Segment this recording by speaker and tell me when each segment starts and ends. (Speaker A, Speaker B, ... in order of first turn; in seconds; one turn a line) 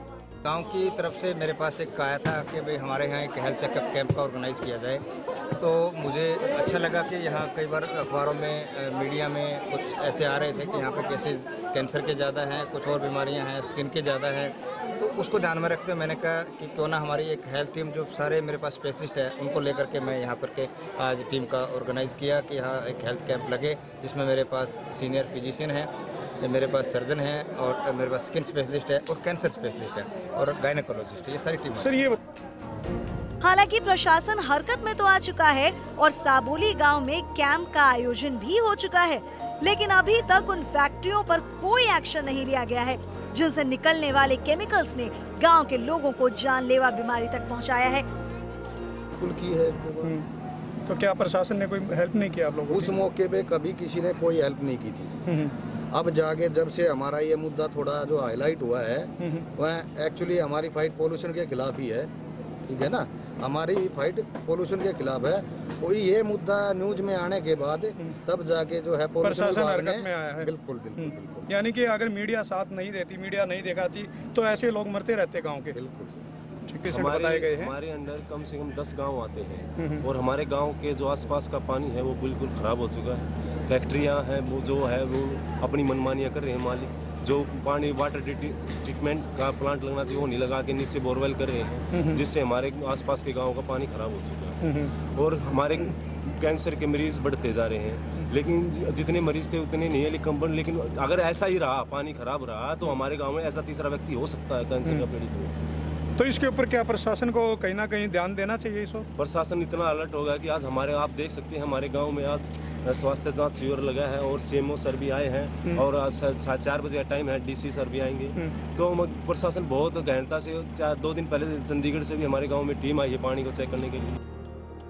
Speaker A: 0.5-5.0
Speaker A: 5.6-32.0
Speaker B: 31.8-32.2
Speaker C: 33.4-48.0
Speaker D: 49.2-50.1
Speaker B: 50.9-53.0
Speaker D: 52.7-55.1
Speaker B: 55.3-55.5
Speaker D: 55.9-62.1
Speaker B: 59.2-59.5
Speaker D: 62.7-71.4
Speaker B: 69.2-75.8
Speaker D: 75.7-76.1
Speaker B: 76.7-77.7
Speaker E: 76.9-105.5
Speaker B: 106.2-109.1
Speaker E: 109.2-124.2